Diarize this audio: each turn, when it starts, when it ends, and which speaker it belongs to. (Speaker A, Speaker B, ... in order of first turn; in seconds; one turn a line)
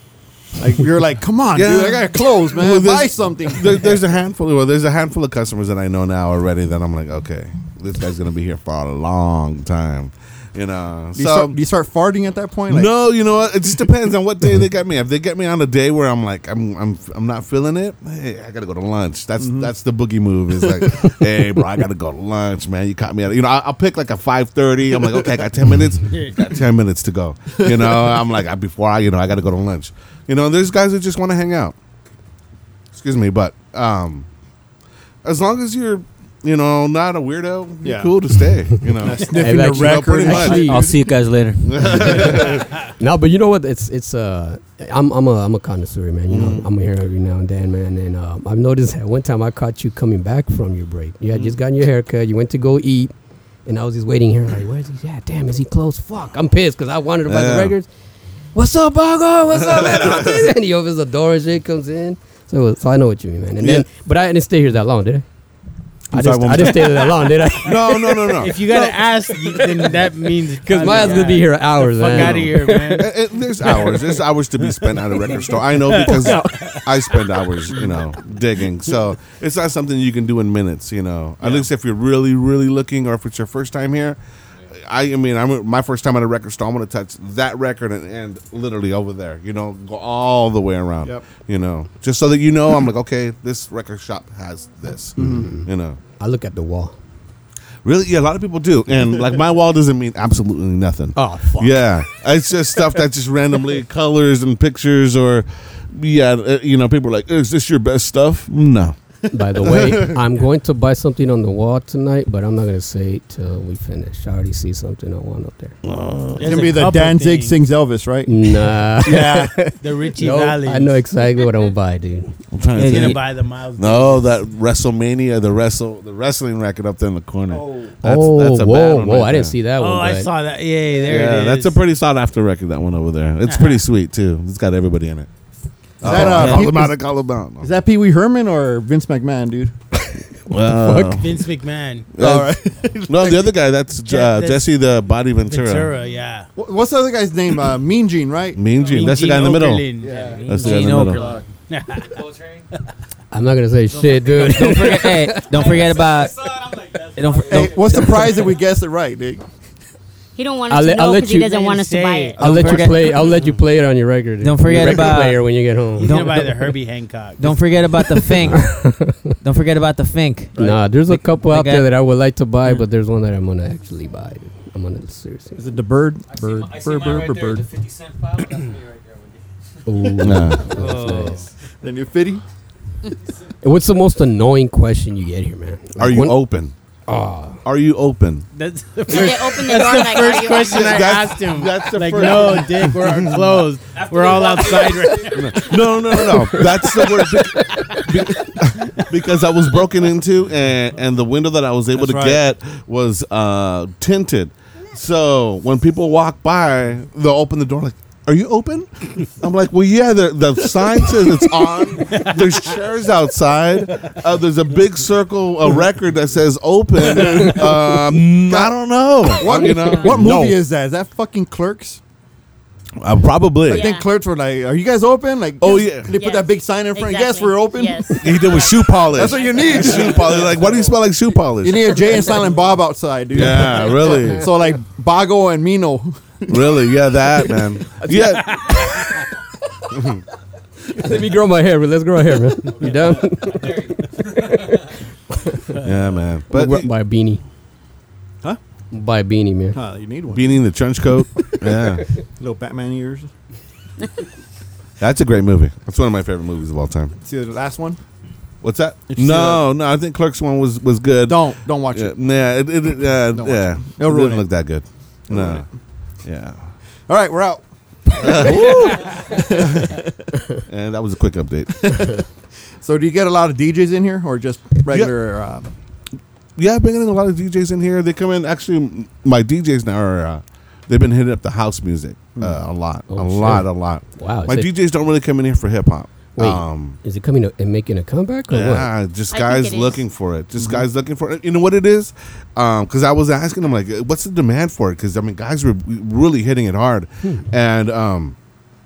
Speaker A: 0.6-4.0
Speaker B: 1.5-11.6
Speaker A: 11.1-12.9
Speaker B: 12.7-31.7
Speaker A: 19.4-19.7
Speaker A: 20.6-21.1
Speaker A: 25.0-25.4
Speaker C: 26.1-26.5
Speaker A: 27.6-28.3
Speaker B: 32.9-34.2
Speaker B: 35.2-40.6
Speaker A: 37.8-38.1
Speaker A: 39.0-40.9
Speaker D: 39.3-40.9
Speaker E: 40.5-42.2
Speaker B: 41.6-42.6
Speaker D: 41.8-53.1
Speaker B: 46.3-46.7
Speaker D: 53.6-57.9
Speaker B: 57.3-57.7
Speaker D: 58.5-65.2
Speaker B: 59.6-60.4
Speaker B: 63.6-63.9
Speaker D: 66.1-68.5
Speaker B: 66.1-69.0
Speaker C: 68.3-73.1
Speaker D: 70.6-73.1
Speaker B: 72.1-84.2
Speaker C: 75.8-76.8
Speaker D: 75.9-76.8
Speaker B: 84.8-96.0
Speaker A: 91.0-91.3
Speaker A: 95.2-95.5
Speaker D: 95.2-97.0
Speaker B: 97.8-109.0
Speaker D: 101.2-101.9
Speaker D: 109.3-115.8
Speaker B: 109.6-110.2
Speaker B: 115.8-116.5
Speaker C: 116.4-117.6
Speaker A: 116.4-119.6
Speaker D: 118.2-122.4
Speaker C: 119.8-120.9
Speaker B: 122.5-123.2
Speaker F: 122.7-123.2
Speaker C: 122.8-124.3
Speaker B: 123.8-129.5
Speaker D: 128.0-130.3
Speaker C: 129.8-131.8
Speaker B: 131.0-135.3
Speaker C: 133.4-133.8
Speaker A: 136.0-137.0
Speaker B: 136.0-137.7
Speaker A: 137.6-139.7
Speaker D: 140.1-141.2
Speaker B: 140.5-141.3
Speaker C: 141.0-142.1
Speaker B: 142.2-145.9
Speaker A: 142.2-143.6
Speaker C: 144.1-144.8
Speaker C: 145.4-146.5
Speaker A: 146.6-148.6
Speaker B: 148.5-149.9
Speaker C: 148.9-150.8
Speaker A: 150.0-150.4
Speaker E: 150.0-150.5
Speaker F: 150.4-151.4
Speaker B: 150.4-151.2
Speaker C: 151.7-152.2
Speaker E: 152.1-152.6
Speaker D: 153.3-155.7
Speaker E: 154.0-154.3
Speaker F: 154.4-156.3
Speaker E: 155.5-158.2
Speaker F: 157.2-158.5
Speaker A: 157.5-159.4
Speaker G: 160.3-162.4
Speaker D: 160.7-161.6
Speaker C: 161.3-162.4
Speaker D: 162.4-166.5
Speaker F: 162.4-163.0
Speaker A: 162.4-163.1
Speaker F: 164.4-165.4
Speaker C: 166.0-167.8
Speaker F: 166.0-166.6
Speaker F: 167.4-168.8
Speaker D: 168.2-169.3
Speaker F: 169.4-171.9
Speaker D: 170.6-175.6
Speaker A: 175.6-177.7
Speaker E: 176.3-180.2
Speaker D: 179.8-181.5
Speaker B: 180.2-180.7
Speaker F: 180.7-181.4
Speaker E: 180.7-181.3
Speaker A: 181.8-182.4
Speaker D: 183.6-186.4
Speaker B: 186.0-186.7
Speaker D: 187.1-187.6
Speaker B: 187.6-188.5
Speaker C: 188.5-196.6
Speaker G: 189.1-191.1
Speaker B: 190.7-193.4
Speaker E: 193.9-195.4
Speaker B: 195.3-220.5
Speaker A: 201.9-202.4
Speaker C: 212.1-212.7
Speaker A: 217.0-218.7
Speaker D: 217.4-217.7
Speaker A: 219.3-222.0
Speaker D: 219.4-220.6
Speaker G: 219.8-220.0
Speaker B: 223.0-223.9
Speaker G: 223.7-224.1
Speaker A: 223.7-228.4
Speaker B: 225.6-226.1
Speaker G: 226.1-229.7
Speaker B: 228.2-232.0
Speaker A: 229.0-230.9
Speaker A: 231.6-236.9
Speaker B: 233.3-234.5
Speaker B: 236.5-238.6
Speaker D: 238.1-238.4
Speaker C: 238.5-239.2
Speaker B: 239.9-240.2
Speaker D: 240.9-245.8
Speaker B: 245.8-246.9
Speaker D: 246.5-247.4
Speaker D: 248.9-249.8
Speaker A: 249.7-253.3
Speaker B: 250.3-252.0
Speaker B: 255.0-257.1
Speaker A: 257.2-258.0
Speaker B: 258.6-265.6
Speaker A: 259.1-259.6
Speaker A: 261.2-262.1
Speaker A: 263.3-264.5
Speaker A: 265.3-265.6
Speaker B: 266.2-266.6
Speaker A: 267.1-270.2
Speaker B: 268.2-269.9
Speaker B: 270.7-271.7
Speaker A: 271.7-272.3
Speaker A: 272.8-275.7
Speaker B: 274.9-275.1
Speaker B: 276.6-287.0
Speaker A: 282.4-282.7
Speaker D: 283.1-284.7
Speaker D: 286.4-288.9
Speaker B: 288.5-298.3
Speaker G: 289.3-290.1
Speaker A: 290.6-290.8